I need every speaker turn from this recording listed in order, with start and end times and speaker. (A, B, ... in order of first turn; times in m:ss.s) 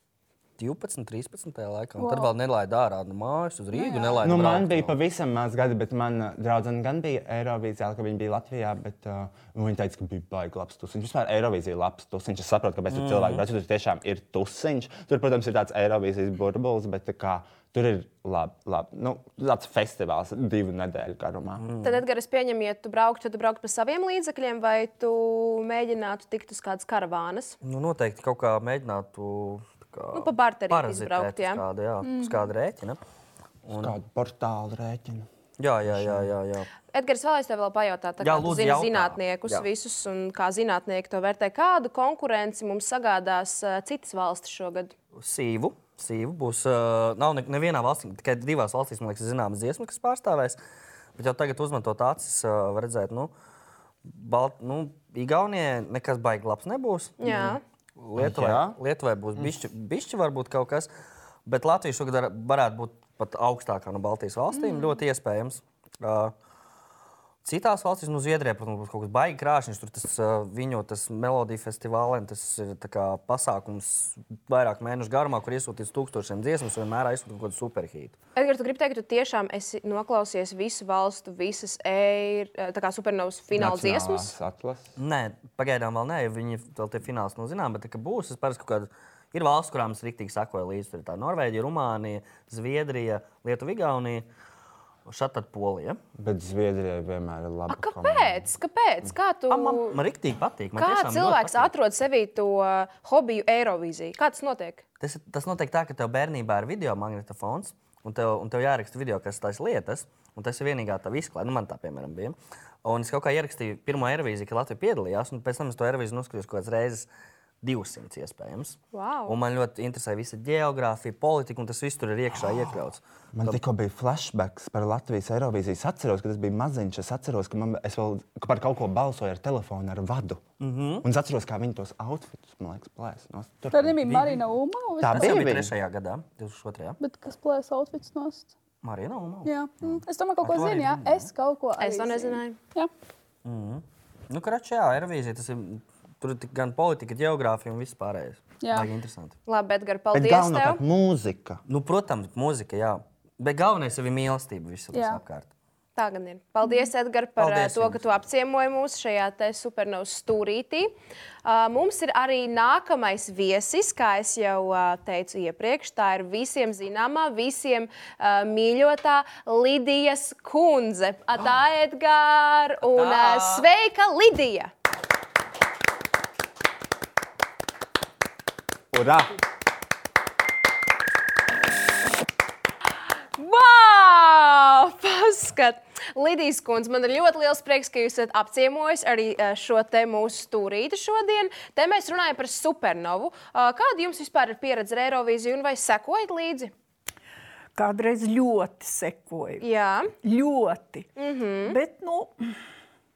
0:00.6-0:04.9 A
0:02.0-0:02.3 B
0:03.7-0:04.3 B
0:04.2-0:21.6 C
0:12.9-0:13.4 A
0:21.6-0:22.0 A
0:21.8-0:27.6 D
0:27.6-0:33.0 A
0:30.1-0:31.6 D
0:32.0-0:32.5 B
0:33.6-0:33.9 A
0:33.7-0:35.3 C
0:35.6-0:36.7 A
0:35.9-0:36.3 C
0:36.9-0:44.9 D
0:38.2-0:39.6 A
0:45.1-0:50.6 A
0:51.2-0:53.3 A
0:54.0-1:00.9 A
0:57.2-0:57.6 D
0:58.2-0:58.8 C
1:01.4-1:06.3 A
1:04.5-1:05.0 B
1:07.4-1:18.2 A
1:18.4-1:24.3 D
1:23.5-1:24.9 C
1:25.0-1:34.3 A
1:35.0-1:36.0 A
1:36.2-1:38.5 C
1:37.7-1:40.0 D
1:39.5-1:41.7 A
1:40.8-1:44.8 D
1:45.0-1:57.1 A
1:57.6-2:03.6 A
1:58.9-1:59.3 D
2:03.3-2:10.4 C
2:10.6-2:11.0 A
2:11.0-2:14.3 C
2:13.7-2:15.4 B
2:14.0-2:14.4 A
2:15.0-2:15.7 C
2:15.1-2:17.0 A
2:17.0-2:18.5 B
2:18.8-2:21.3 A
2:19.4-2:22.9 B
2:21.8-2:22.6 D
2:23.4-2:29.4 A
2:28.6-2:28.9 B
2:29.4-2:30.8 D
2:30.1-2:31.6 C
2:31.7-2:35.5 A
2:34.9-2:35.2 B
2:36.0-2:40.9 D
2:37.4-2:38.0 A
2:41.4-2:54.7 D
2:52.9-2:53.7 A
2:58.9-2:59.3 C
3:03.4-3:16.7 D
3:17.8-3:19.6 E
3:19.6-3:20.1 D
3:20.2-3:21.1 E
3:21.2-3:21.8 D
3:21.6-3:22.5 E